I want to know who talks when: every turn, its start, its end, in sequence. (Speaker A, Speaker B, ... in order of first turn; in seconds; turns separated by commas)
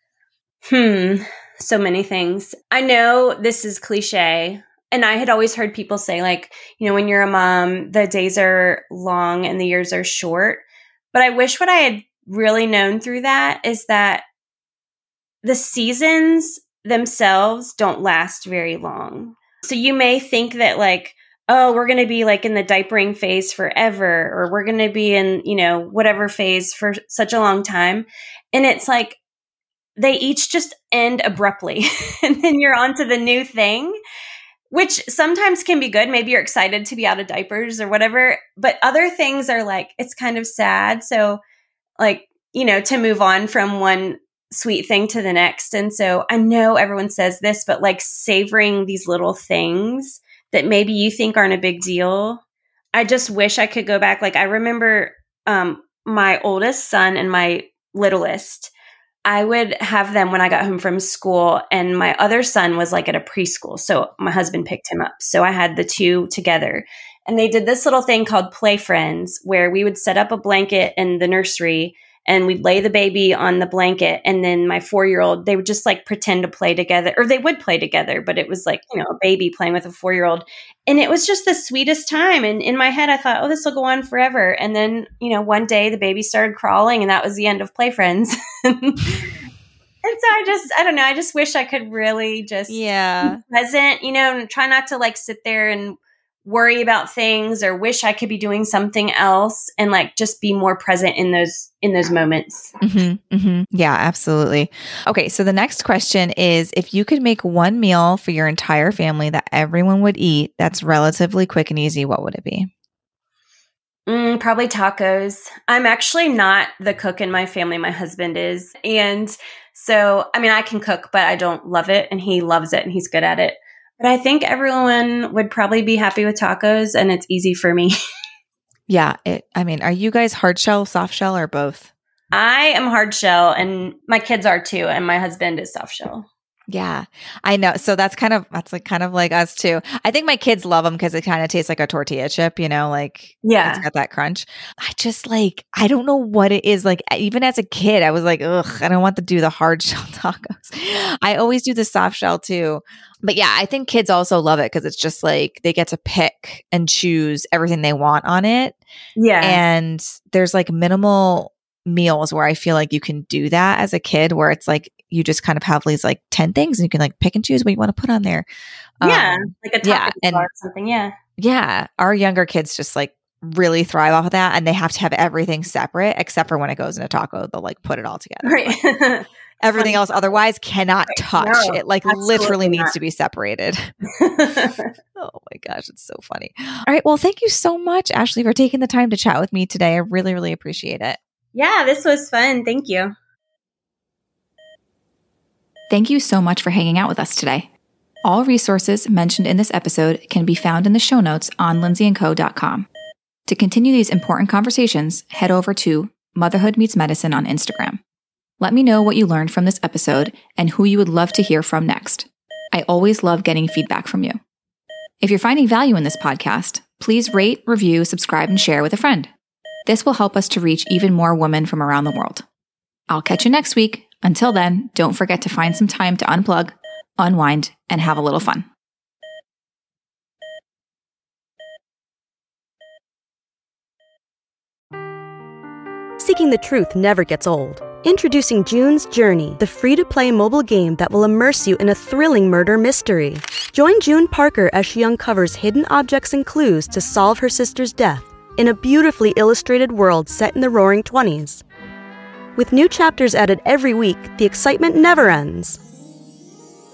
Speaker A: 0.7-14.2, Speaker A: 15.4-29.2, Speaker A: 30.0-34.0, Speaker A: 34.7-41.4, Speaker A: 42.0-52.4, Speaker A: 52.9-58.7, Speaker A: 59.2-89.2, Speaker A: 90.0-102.7, Speaker B: 92.7-93.4, Speaker B: 102.8-112.7, Speaker A: 114.1-128.0, Speaker B: 128.9-131.9, Speaker A: 132.3-136.3, Speaker B: 136.7-158.8, Speaker A: 143.4-143.8, Speaker A: 159.2-159.6, Speaker B: 159.4-168.5, Speaker B: 169.0-170.5, Speaker A: 169.0-171.1, Speaker B: 171.4-178.8, Speaker A: 178.4-180.1, Speaker B: 179.6-183.9, Speaker A: 181.1-182.9, Speaker A: 184.1-184.9, Speaker B: 185.2-191.2, Speaker A: 191.5-193.1, Speaker B: 195.9-197.7, Speaker B: 198.2-202.8, Speaker B: 203.4-208.0, Speaker B: 208.6-214.4, Speaker B: 215.2-219.3, Speaker B: 219.8-222.4, Speaker B: 223.1-228.7, Speaker C: 236.2-251.6, Speaker C: 252.5-255.8